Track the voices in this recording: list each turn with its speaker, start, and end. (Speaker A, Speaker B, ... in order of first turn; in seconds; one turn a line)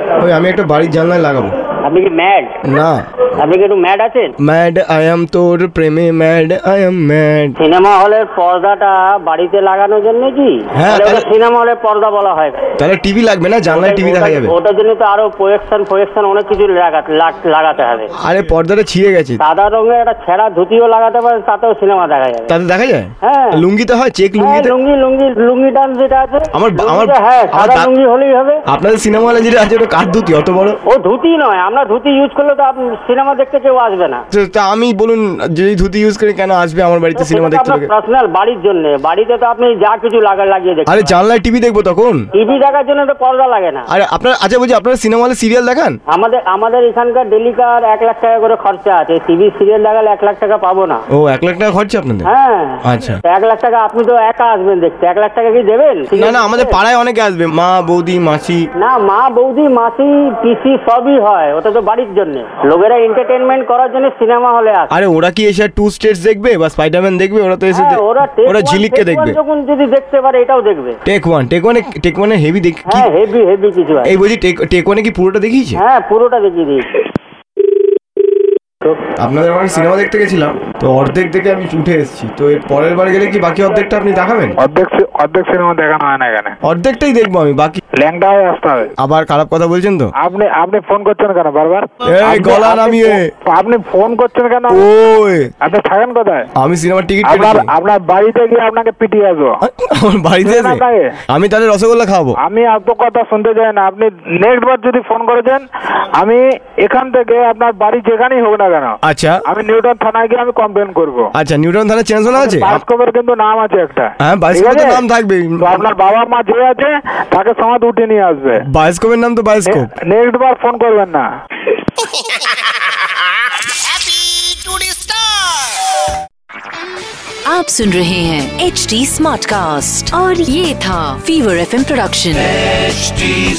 Speaker A: 0.2-1.5
Speaker B: 1.8-2.6
Speaker A: 2.6-3.0
Speaker B: 3.4-4.3
Speaker A: 4.4-7.5
Speaker B: 7.6-12.6
Speaker A: 10.7-11.3
Speaker A: 12.8-14.5
Speaker B: 13.7-18.1
Speaker A: 18.2-19.4
Speaker B: 19.4-22.5
Speaker A: 22.5-24.7
Speaker B: 23.2-23.6
Speaker B: 24.4-28.6
Speaker A: 26.5-27.9
Speaker A: 28.7-30.8
Speaker B: 30.9-34.2
Speaker A: 34.3-37.9
Speaker B: 37.1-41.1
Speaker A: 40.9-42.3
Speaker B: 42.3-43.9
Speaker A: 43.9-46.0
Speaker B: 46.1-51.0
Speaker A: 51.1-52.3
Speaker B: 52.2-56.8
Speaker A: 52.8-53.2
Speaker A: 56.1-58.7
Speaker B: 58.8-64.9
Speaker A: 64.9-69.4
Speaker B: 67.7-71.0
Speaker A: 71.0-73.1
Speaker B: 72.9-74.1
Speaker A: 74.0-75.8
Speaker B: 75.8-76.9
Speaker A: 79.2-84.5
Speaker C: 84.6-86.5
Speaker A: 86.6-87.8
Speaker C: 88.0-88.9
Speaker A: 89.0-90.1
Speaker C: 90.2-94.8
Speaker A: 92.0-93.3
Speaker A: 94.7-95.5
Speaker C: 95.6-96.4
Speaker A: 96.6-97.7
Speaker C: 97.2-99.5
Speaker A: 99.6-102.4
Speaker C: 100.4-101.0
Speaker C: 102.4-105.7
Speaker C: 106.2-111.3
Speaker A: 109.0-109.4
Speaker A: 111.3-112.8
Speaker C: 112.3-115.0
Speaker A: 114.2-115.8
Speaker C: 115.6-118.6
Speaker A: 118.6-119.9
Speaker C: 119.7-121.2
Speaker D: 127.5-132.8